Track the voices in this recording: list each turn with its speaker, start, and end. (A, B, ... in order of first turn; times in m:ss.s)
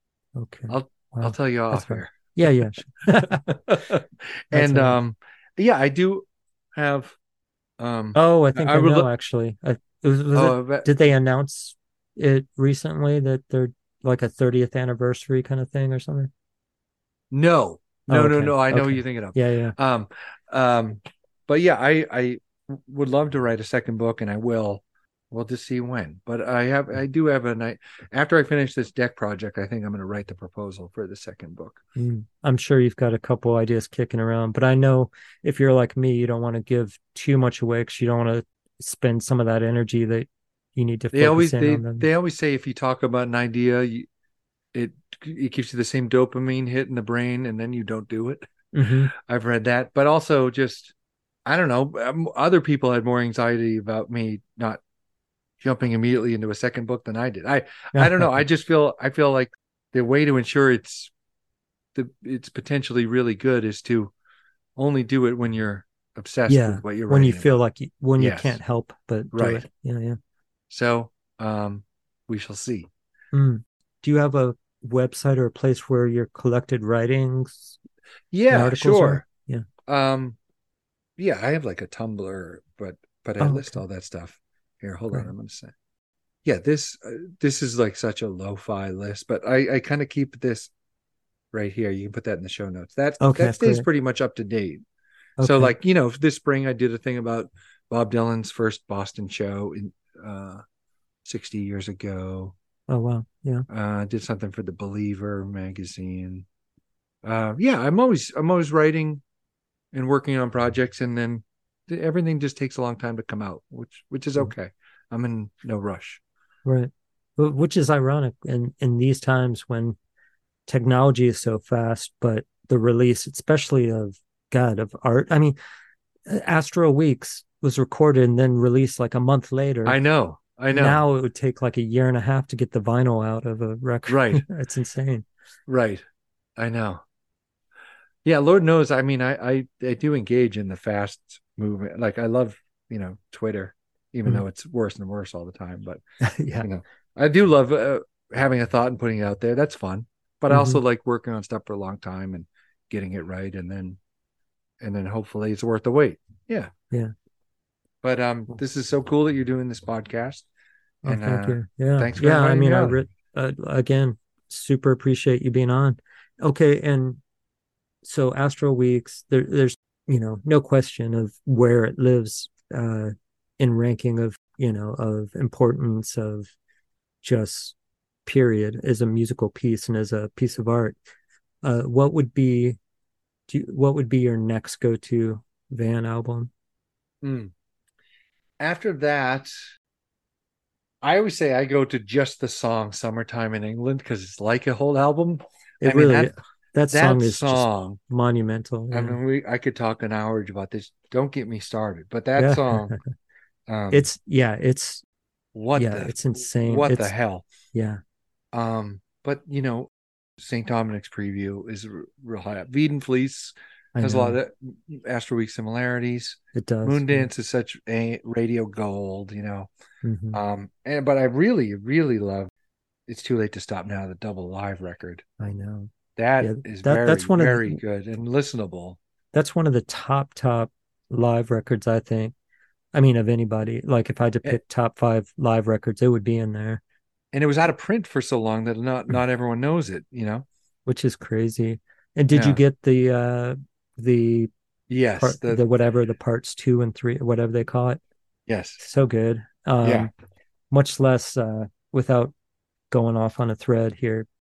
0:00.4-0:03.5 A
0:00.7-0:07.2 B
0:04.5-0:05.0 A
0:07.8-0:09.1 B
0:08.1-0:16.3 A
0:10.3-0:10.9 B
0:17.3-0:31.8 B
0:18.1-0:19.7 A
0:32.0-0:42.1 A
0:41.1-0:44.1 B
0:44.7-0:48.4 B
0:48.7-0:49.1 A
0:49.1-0:50.9 B
0:51.4-0:54.8 B
0:55.6-1:01.1 B
0:57.9-0:58.3 A
1:01.9-1:04.1 B
1:04.8-1:07.6 B
1:06.5-1:10.2 A
1:08.2-1:08.6 B
1:09.3-1:09.6 B
1:10.7-1:12.9 B
1:13.3-1:17.8 A
1:18.3-1:19.2 B
1:18.5-1:19.6 A
1:19.9-1:20.4 B
1:21.2-1:25.7 B
1:23.4-1:23.8 A
1:26.4-1:30.7 B
1:31.5-1:34.8 B
1:33.2-1:33.8 A
1:35.4-1:35.7 A
1:35.4-1:40.6 B
1:41.2-1:42.6 B
1:42.9-1:43.6 A
1:43.7-1:46.5 B
1:47.2-1:49.2 B
1:49.9-1:56.2 B
1:56.6-2:00.0 A
2:00.7-2:05.6 A
2:06.3-2:10.0 A
2:09.8-2:11.0 B
2:10.7-2:15.3 A
2:14.1-2:14.4 B
2:15.7-2:16.0 B
2:16.6-2:17.0 B
2:18.2-2:26.0 B
2:26.2-2:26.7 A
2:26.6-2:34.0 B
2:30.5-2:30.8 A
2:34.8-2:36.7 B
2:38.0-2:40.4 B
2:41.0-2:43.0 B
2:41.0-2:47.2 A
2:48.0-2:56.5 A
2:57.2-2:57.7 A
2:58.3-3:01.0 A
3:01.6-3:02.8 A
3:03.5-3:06.5 A
3:07.2-3:07.5 B
3:08.6-3:09.5 B
3:11.0-3:16.3 B
3:15.8-3:19.2 A
3:16.9-3:18.0 B
3:18.9-3:23.0 B
3:22.4-3:23.1 A
3:23.7-3:24.0 B
3:23.9-3:25.0 A
3:25.5-3:27.5 B
3:25.8-3:27.1 A
3:27.7-3:28.0 A
3:28.5-3:39.7 B
3:33.9-3:34.4 A
3:36.5-3:37.3 A
3:40.0-3:40.4 A
3:40.3-3:42.5 B
3:43.1-3:45.2 B
3:45.4-3:47.8 A
3:46.2-3:49.0 B
3:49.3-3:52.3 A
3:52.9-3:56.8 A
3:57.3-4:00.4 B
4:00.8-4:04.5 A
4:02.3-4:02.6 B
4:04.9-4:05.6 B
4:05.2-4:08.0 A
4:08.5-4:08.8 B
4:08.8-4:10.1 A
4:09.8-4:10.1 B
4:10.7-4:12.3 A
4:12.9-4:14.3 A